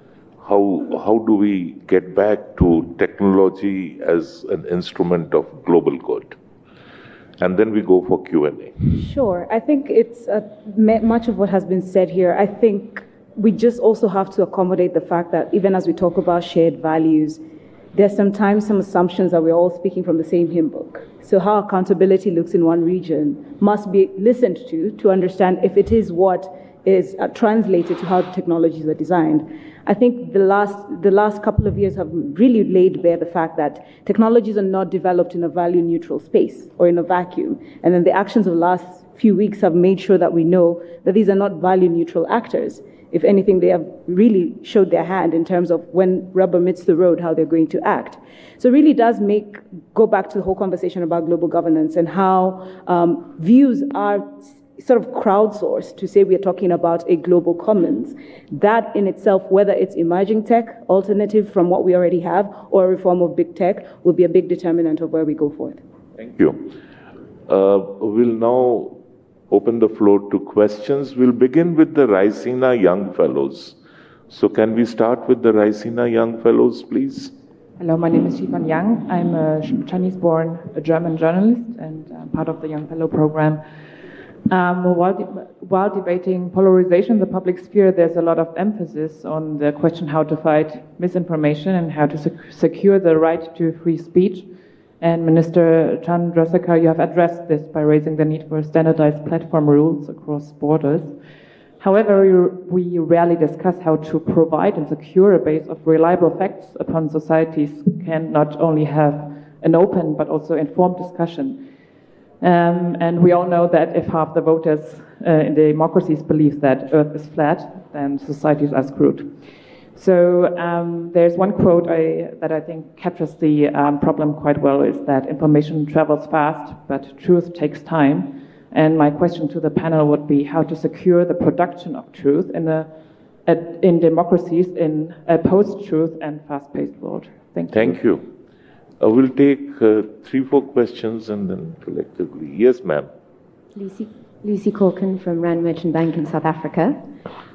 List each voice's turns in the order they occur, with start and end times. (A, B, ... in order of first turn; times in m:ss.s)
0:00.4-0:06.4 A
0:07.4-0:08.7 A
0:08.9-0:17.4 B
0:17.9-1:05.8 B
1:06.2-1:06.7 A
1:07.5-1:09.0 A
1:09.5-1:13.8 A
1:14.3-1:17.3 A
1:17.8-1:23.6 C
1:24.5-1:41.2 C
1:41.8-1:51.6 C
1:52.4-1:59.4 C
1:59.9-2:12.9 C
2:13.4-2:18.0 C
2:17.7-2:18.3 A
2:19.0-2:23.1 A
2:23.7-2:27.0 D